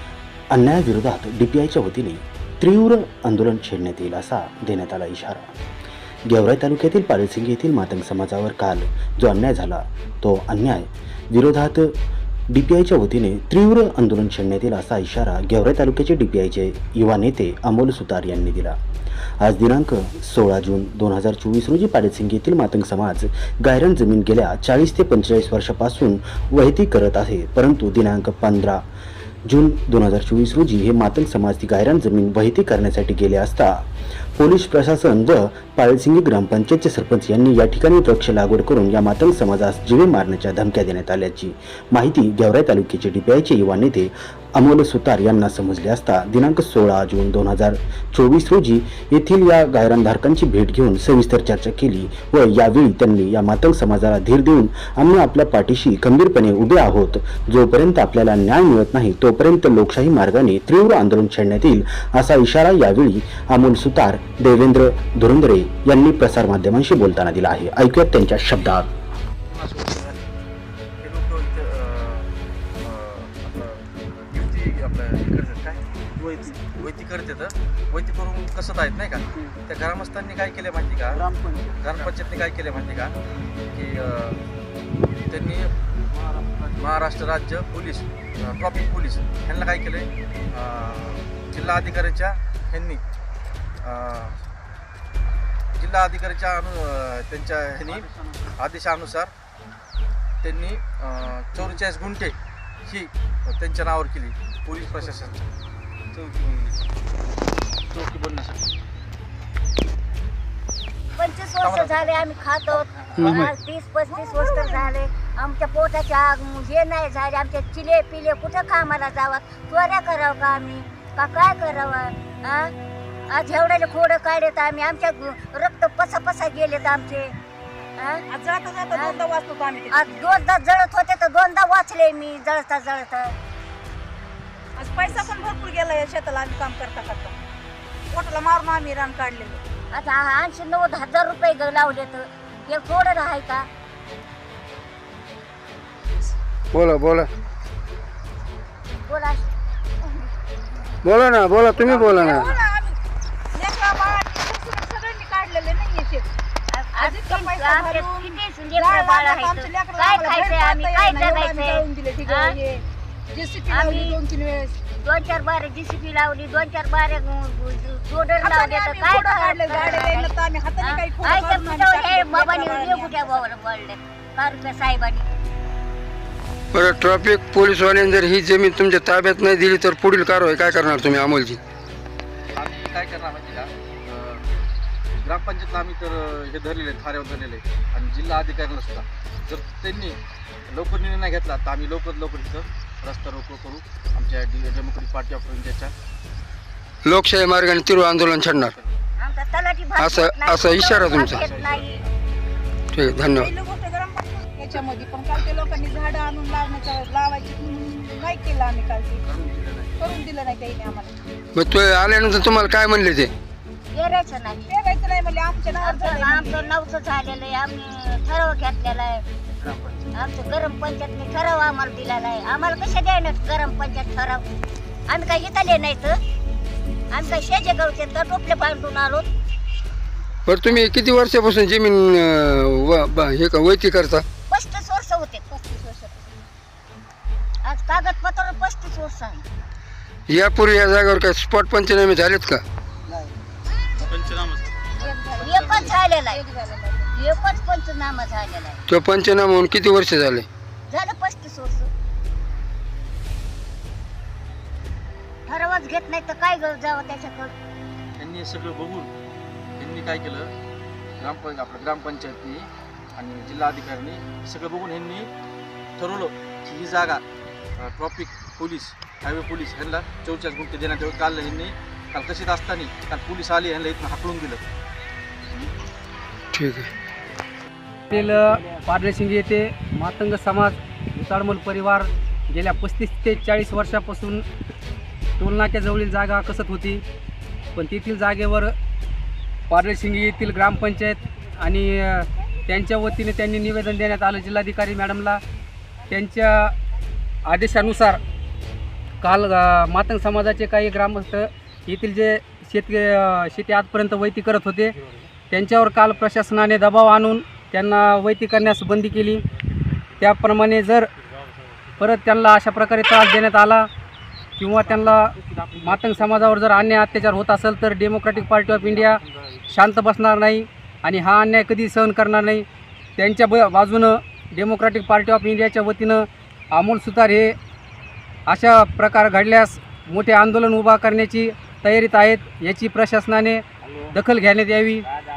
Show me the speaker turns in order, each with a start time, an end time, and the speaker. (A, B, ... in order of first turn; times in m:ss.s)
0:00.5-0:05.6 A
0:06.2-0:18.8 A
0:19.4-0:28.8 A
0:29.5-0:33.8 A
0:34.4-1:08.9 A
1:09.5-1:10.3 B
1:11.0-1:12.3 B
1:12.8-1:15.8 B
1:16.7-1:21.3 B
1:21.8-1:23.2 B
1:23.7-1:24.4 B
1:25.3-1:25.7 B
1:26.7-1:33.0 B
1:33.8-1:34.4 B
1:35.7-1:39.3 B
1:40.4-1:42.3 B
1:42.8-1:45.5 B
1:47.9-1:48.6 B
1:51.2-2:02.7 C
1:51.6-1:53.5 B
1:53.2-1:53.5 D
1:54.2-1:54.8 E
2:03.3-2:07.3 C
2:08.0-2:08.2 C
2:08.3-2:10.1 E
2:08.9-2:09.2 C
2:09.9-2:13.4 C
2:14.8-2:17.4 E
2:18.1-2:19.6 E
2:19.9-2:23.7 C
2:26.7-2:27.3 D
2:29.1-2:29.5 C
2:31.0-2:32.5 D
2:31.8-2:33.0 E
2:33.5-2:36.2 E
2:36.7-2:42.6 C
2:36.9-2:44.8 E
2:43.7-2:44.2 C
2:45.0-2:55.3 C
2:48.4-2:53.4 E
2:56.7-3:01.6 D
3:02.5-3:04.4 B
3:05.2-3:10.2 B
3:10.7-3:15.9 B
3:17.0-3:18.7 D
3:19.2-3:22.0 C
3:20.0-3:21.5 D
3:20.6-3:22.1 B
3:22.9-3:23.5 D
3:23.3-3:29.2 E
3:30.0-3:31.1 E
3:31.5-3:33.3 D
3:33.9-3:34.7 C
3:34.7-3:36.7 E
3:35.8-3:39.2 C
3:39.6-3:40.0 B
3:40.1-3:44.4 C
3:45.1-3:46.2 C
3:47.1-3:49.2 C
3:50.4-3:54.2 D
3:54.5-3:55.4 C
3:55.5-3:56.4 E
3:57.6-3:59.4 C
4:00.3-4:02.6 D
4:04.0-4:07.1 E
4:05.4-4:06.4 C
4:07.1-4:08.8 C
4:08.9-4:10.5 D
4:10.9-4:11.9 C
4:15.5-4:17.5 C
4:18.2-4:19.1 B
4:19.8-4:20.5 B
4:21.2-4:25.3 B
4:26.0-4:27.2 B
4:27.8-4:34.6 B
4:36.5-4:36.9 D
4:38.1-4:44.4 F
4:45.4-4:47.0 F
4:47.8-4:48.7 F
4:49.7-4:55.4 F
4:56.1-4:56.7 F
4:57.4-4:58.2 F
4:59.2-5:05.0 F
5:05.5-5:09.4 F
5:10.2-5:11.1 F
5:12.0-5:13.9 F
5:14.6-5:22.6 F
5:23.2-5:27.6 F
5:28.5-5:35.0 F